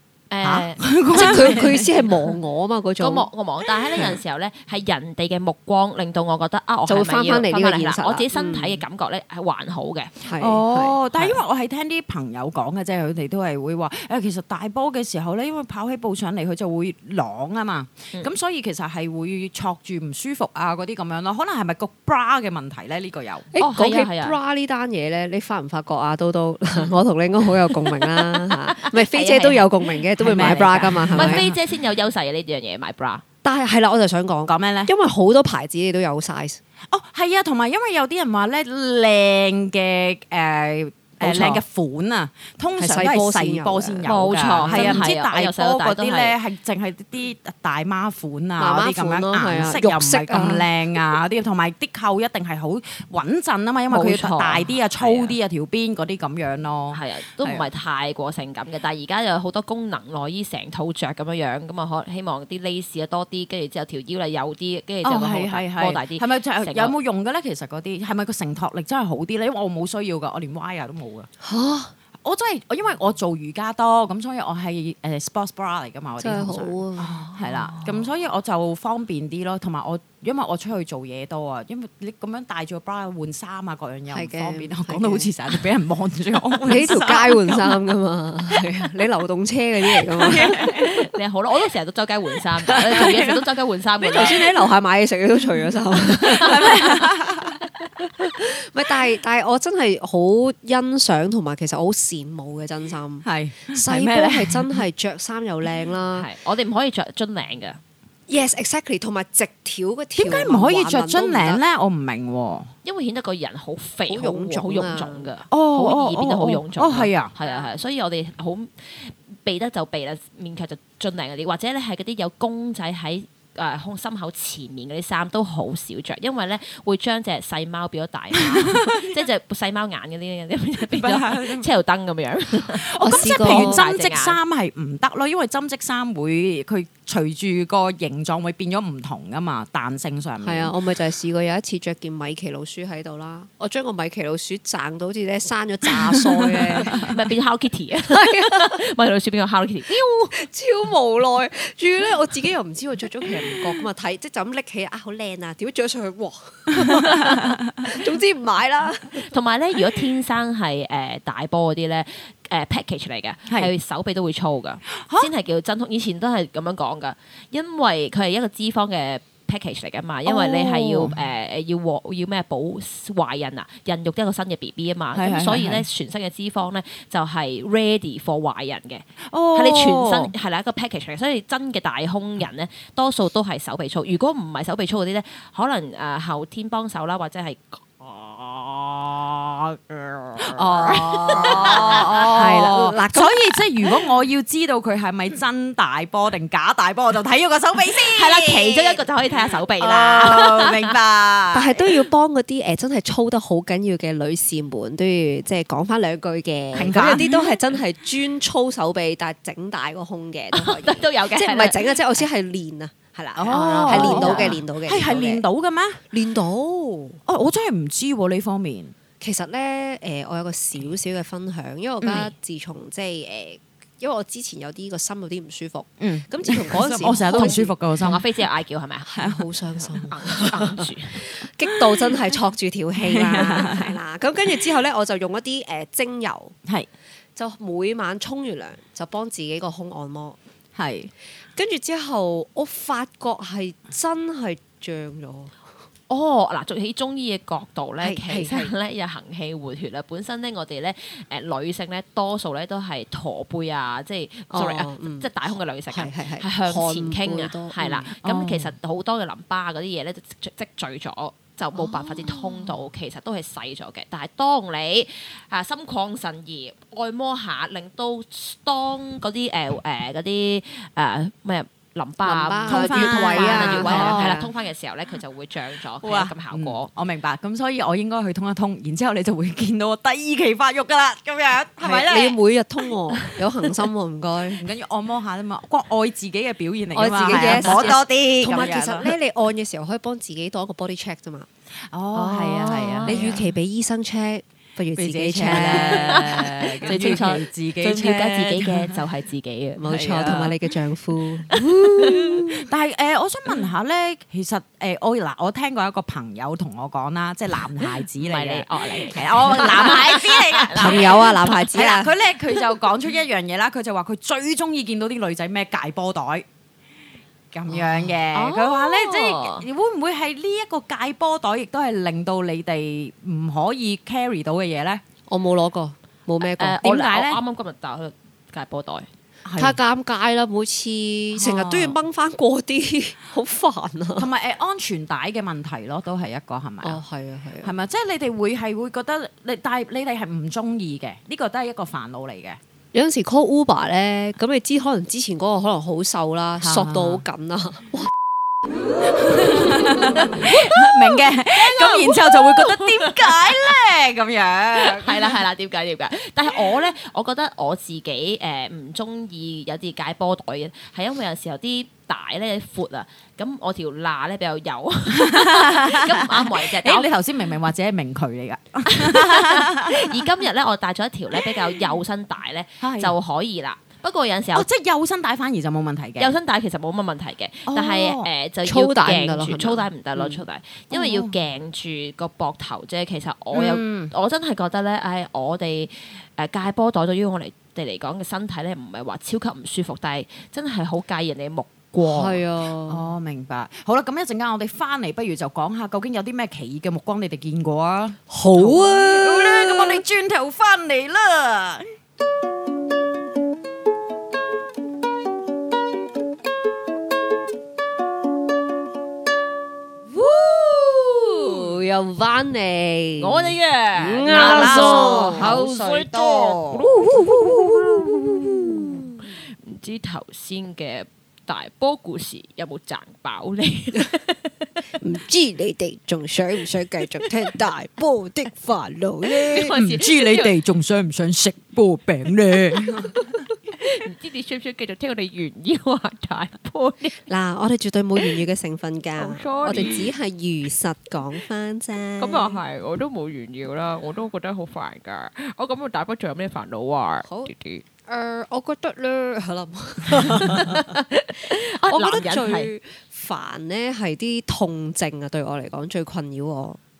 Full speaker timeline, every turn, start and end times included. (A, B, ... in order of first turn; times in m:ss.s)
0:00.3-0:01.8 A
0:00.4-0:01.9 B
0:01.1-0:03.3 C
0:03.0-0:10.1 A
0:06.9-0:08.8 C
0:10.2-0:11.0 C
0:10.4-0:23.5 B
0:23.5-0:31.5 C
0:23.6-0:24.4 A
0:27.7-0:33.2 A
0:30.2-0:31.6 B
0:33.4-0:36.6 C
0:34.5-0:34.9 B
0:36.9-0:57.6 B
0:42.8-0:44.1 C
0:44.0-0:46.4 A
0:44.6-0:45.1 C
0:48.6-0:50.7 C
0:53.9-0:55.3 A
0:56.9-1:06.9 A
1:05.0-1:11.3 B
1:11.4-1:11.9 C
1:12.2-1:27.8 B
1:16.2-1:17.8 C
1:24.1-1:25.3 C
1:26.6-1:30.6 C
1:30.1-1:31.0 B
1:30.4-1:34.4 A
1:32.8-1:33.4 B
1:34.0-1:37.1 C
1:34.2-1:34.6 B
1:36.1-1:37.6 B
1:36.3-1:36.9 A
1:38.3-1:46.3 C
1:43.2-1:44.8 B
1:46.1-1:47.8 A
1:48.3-1:51.6 C
1:50.2-1:52.7 B
1:52.8-2:14.4 A
1:54.1-1:55.3 C
1:55.5-1:57.3 B
2:08.5-2:09.2 B
2:10.9-2:11.7 B
2:12.8-2:20.7 B
2:13.0-2:13.8 C
2:20.4-2:27.1 C
2:26.4-2:27.1 B
2:26.9-2:30.3 A
2:28.1-2:28.8 C
2:30.3-2:39.3 C
2:36.7-2:37.6 B
2:39.2-3:12.3 A
2:45.0-2:45.3 B
2:50.2-2:51.2 B
2:55.1-2:55.8 B
2:59.3-3:00.3 B
3:10.4-3:19.0 B
3:11.2-3:13.5 C
3:18.0-3:20.9 A
3:19.8-3:21.9 B
3:21.5-3:35.4 C
3:26.7-3:27.6 B
3:30.5-3:32.2 A
3:33.4-3:36.0 B
3:33.5-3:34.6 A
3:36.1-3:37.2 C
3:37.3-3:38.9 B
3:39.2-3:47.7 C
3:42.0-3:42.3 B
3:46.0-3:48.2 B
3:47.3-3:49.1 A
3:49.1-3:56.5 C
3:49.2-3:49.4 B
3:49.9-3:51.2 A
3:53.0-3:54.0 B
3:57.4-4:00.4 C
4:00.8-4:01.1 B
4:01.6-4:05.6 C
4:06.1-4:36.9 A
4:08.0-4:08.7 C
4:14.5-4:15.3 C
4:15.9-4:18.1 C
4:18.2-4:18.7 B
4:21.8-4:22.7 C
4:32.2-4:34.5 C
4:32.7-4:34.4 B
4:36.0-4:42.4 B
4:41.8-4:44.6 C
4:44.6-4:49.1 B
4:46.9-4:51.5 C
4:47.3-4:47.9 A
4:51.9-4:53.5 B
4:52.1-4:53.3 A
4:53.0-4:57.2 C
4:55.0-4:59.0 B
4:55.5-5:00.5 A
4:59.8-5:02.6 C
4:59.9-5:00.6 B
5:01.5-5:02.4 A
5:02.5-5:16.4 B
5:07.8-5:11.5 A
5:10.7-5:12.1 C
5:17.5-5:25.0 B
5:18.3-5:19.6 A
5:25.3-5:27.0 C
5:26.4-5:29.1 A
5:26.8-5:27.4 B
5:29.4-5:29.8 B
5:29.6-5:34.3 C
5:31.4-5:32.0 B
5:34.2-5:37.0 B
5:36.8-5:37.7 C
5:37.6-5:42.6 B
5:42.9-5:48.1 C
5:46.6-5:47.2 B
5:49.0-5:55.4 B
5:49.7-5:53.8 A
5:54.8-6:07.1 A
6:05.1-6:10.2 B
6:08.9-6:14.7 A
6:12.8-6:13.1 B
6:14.5-6:16.3 B
6:16.2-6:32.4 A
6:17.7-6:18.3 B
6:18.6-6:19.9 C
6:20.9-6:21.3 B
6:23.5-6:24.1 B
6:32.0-6:33.0 C
6:32.9-6:41.9 B
6:38.3-6:40.0 C
6:50.1-6:55.6 C
6:53.2-7:04.7 A
6:54.3-6:57.2 B
6:56.8-6:59.2 C
7:05.0-7:09.8 C
7:09.2-7:10.6 A
7:09.7-7:13.2 B
7:13.8-7:17.2 A
7:17.3-7:22.6 C
7:19.2-7:20.1 A
7:19.7-7:20.0 B
7:22.2-7:27.8 A
7:27.2-7:27.5 C
7:28.0-7:30.9 C
7:30.1-7:32.7 A
7:31.8-7:36.8 C